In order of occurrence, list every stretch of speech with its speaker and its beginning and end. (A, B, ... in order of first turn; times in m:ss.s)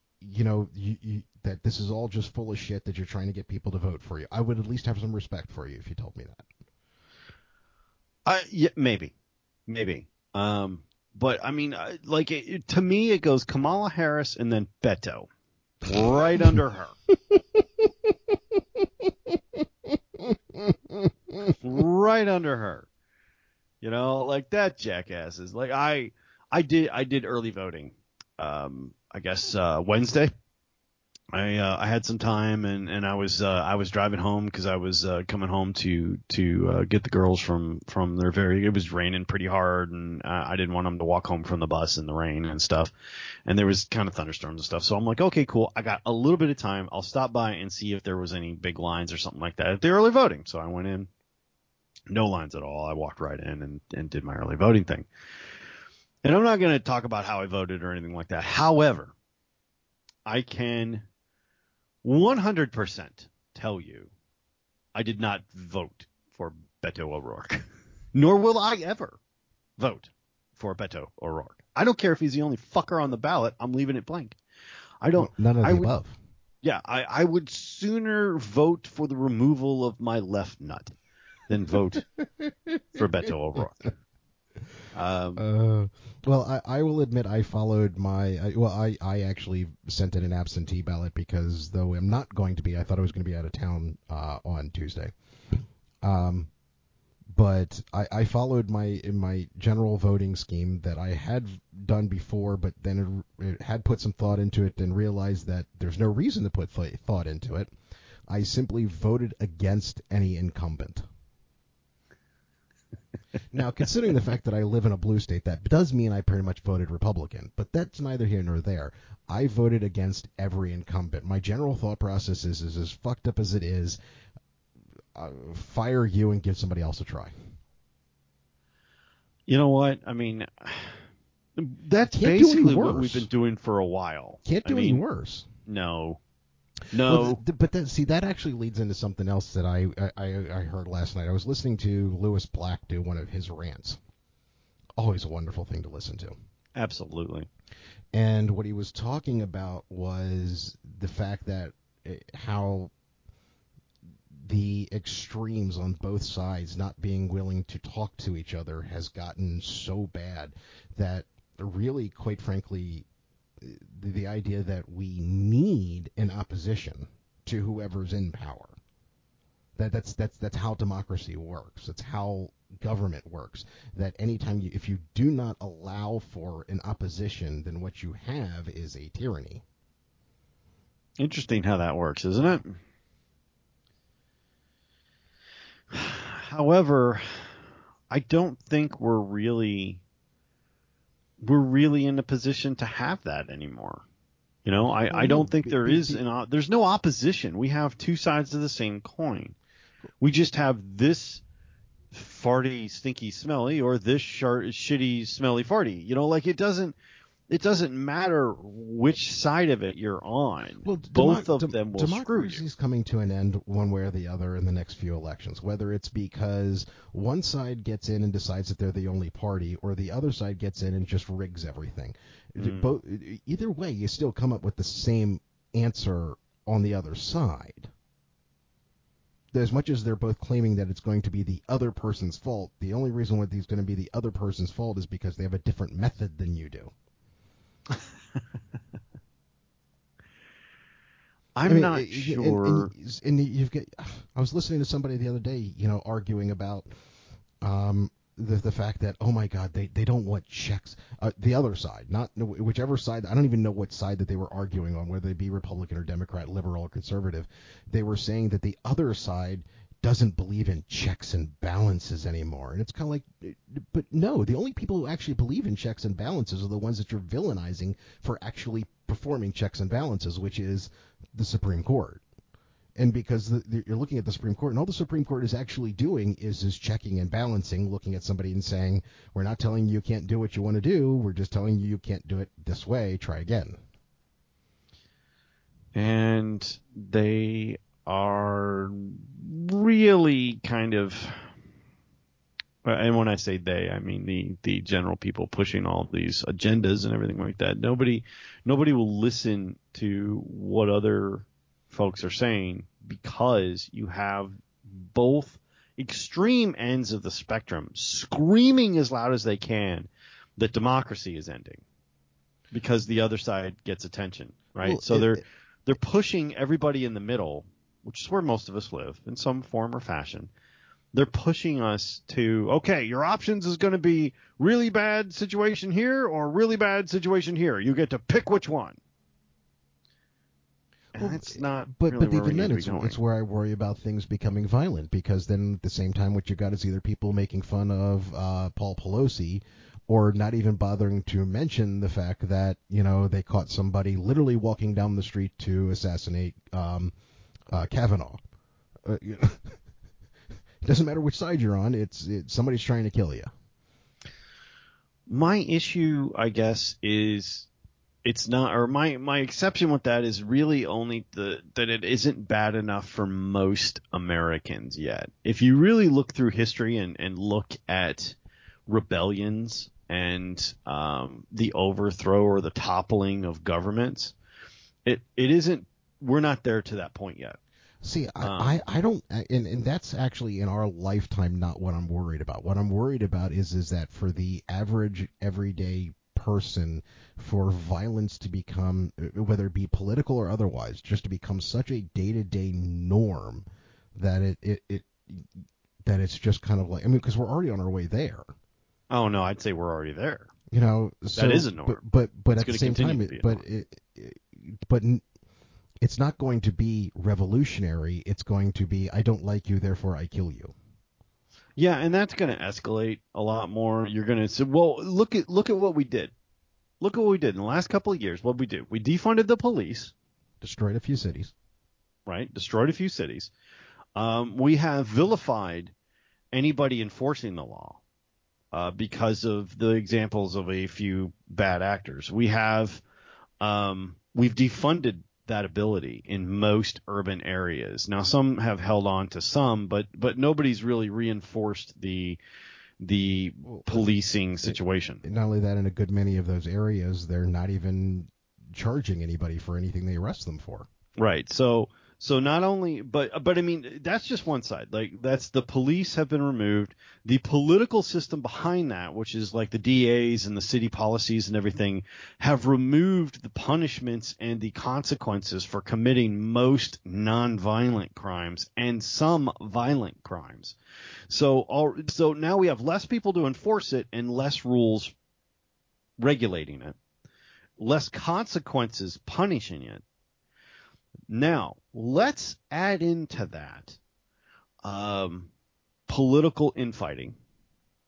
0:00.2-0:06.5 A
0:08.3-0:09.1 B
0:09.7-0:15.3 B
0:15.8-0:17.0 B
0:16.1-0:16.6 A
0:17.3-0:18.1 A
0:18.8-0:21.5 A
0:21.6-0:22.9 B
0:23.8-0:30.3 B
0:31.3-0:42.9 B
0:43.5-0:51.1 B
0:52.1-0:55.1 B
0:56.2-0:59.1 B
1:00.3-1:01.0 B
1:02.0-1:04.1 B
1:04.9-1:09.2 B
1:09.8-1:14.4 B
1:15.0-1:15.9 B
1:15.2-1:16.2 A
1:16.6-1:20.9 B
1:21.5-1:22.0 B
1:21.9-1:23.0 A
1:23.0-1:23.9 B
1:24.9-1:25.4 B
1:25.4-1:35.1 A
1:36.0-1:36.5 A
1:37.3-1:47.7 A
1:48.3-1:51.0 A
1:53.5-2:04.0 A
2:05.2-2:07.4 A
2:09.5-2:11.0 B
2:11.6-2:15.0 B
2:12.1-2:13.3 A
2:14.4-2:15.5 A
2:15.7-2:16.2 B
2:16.9-2:17.4 B
2:17.0-2:24.0 A
2:25.0-2:26.4 A
2:26.8-2:27.5 B
2:28.1-2:32.9 A
2:34.3-2:43.1 A
2:43.6-2:48.8 A
2:49.8-2:59.6 A
3:01.2-3:02.8 B
3:05.9-3:07.5 B
3:08.1-3:10.0 B
3:11.4-3:14.0 B
3:14.6-3:19.6 B
3:15.1-3:16.2 A
3:20.2-3:21.4 B
3:22.1-3:27.0 B
3:27.5-3:32.6 B
3:30.8-3:47.9 A
3:42.6-3:42.9 B
3:49.5-3:56.9 A
4:01.6-4:02.9 B
4:01.6-4:06.9 A
4:07.6-4:32.2 A
4:33.0-4:43.8 A
4:46.0-4:51.5 B
4:52.8-5:11.8 B
5:12.7-5:20.5 B
5:14.8-5:15.4 A
5:21.1-5:29.0 B
5:31.1-5:33.2 B
5:31.2-5:47.1 A
5:47.7-5:48.4 A
5:49.0-5:49.8 A
5:50.8-5:53.5 A
5:55.3-5:57.7 B
5:58.2-6:08.4 B
6:08.9-6:14.4 B
6:15.1-6:17.6 B
6:18.0-6:35.5 A
6:18.4-6:18.8 B
6:36.0-6:38.5 A
6:39.1-6:40.5 B
6:40.7-6:45.2 A
6:41.4-6:42.0 B
6:42.5-6:43.6 B
6:46.0-6:50.7 A
6:51.8-6:56.3 B
6:57.0-7:00.1 B
7:00.6-7:01.5 A
7:02.3-7:03.5 B
7:04.2-7:05.9 B
7:06.5-7:08.0 B
7:08.7-7:13.0 B
7:13.6-7:22.4 B
7:23.0-7:25.2 B
7:23.6-7:30.9 A
7:31.2-7:50.8 B
7:51.3-7:55.1 B
7:56.2-7:57.0 B
7:57.8-8:00.0 B
8:01.3-8:04.0 B
8:04.8-8:05.5 B
8:06.1-8:07.4 B